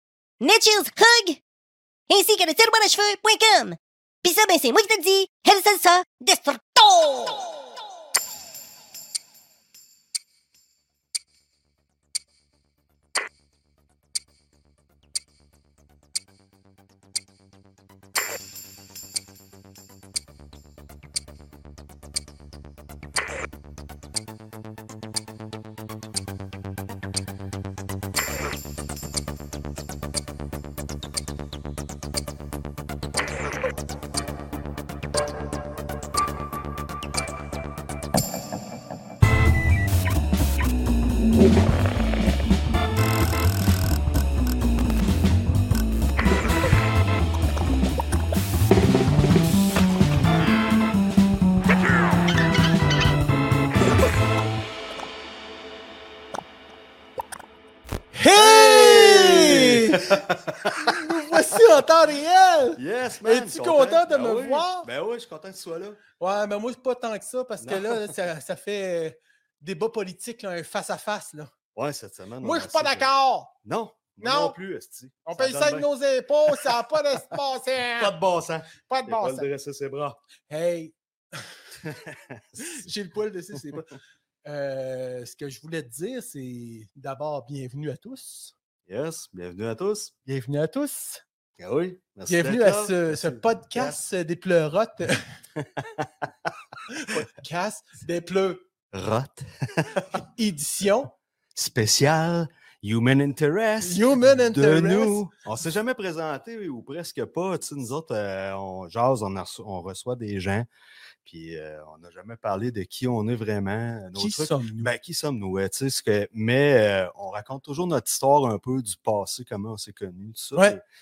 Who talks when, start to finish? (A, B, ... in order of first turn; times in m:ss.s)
0:00.4-0:01.4 A
0:02.1-0:07.7 A
0:58.1-1:04.9 B
0:58.3-1:01.0 C
1:02.8-1:06.0 C
1:06.2-1:11.5 B
1:07.6-1:08.1 C
1:11.7-1:13.1 C
1:12.4-1:13.5 B
1:13.6-1:15.9 C
1:14.2-1:14.6 B
1:15.2-1:18.1 B
1:18.0-1:20.2 C
1:18.8-1:19.5 B
1:20.5-1:21.6 B
1:21.8-1:22.9 C
1:22.6-1:28.5 B
1:28.9-1:30.1 C
1:30.2-1:31.2 B
1:31.6-1:34.0 C
1:32.3-1:35.2 B
1:35.6-1:36.5 C
1:36.9-1:38.7 B
1:38.9-1:40.1 C
1:40.1-1:41.1 B
1:41.5-1:50.7 C
1:43.8-1:45.2 B
1:51.2-2:00.8 C
1:54.2-1:54.9 B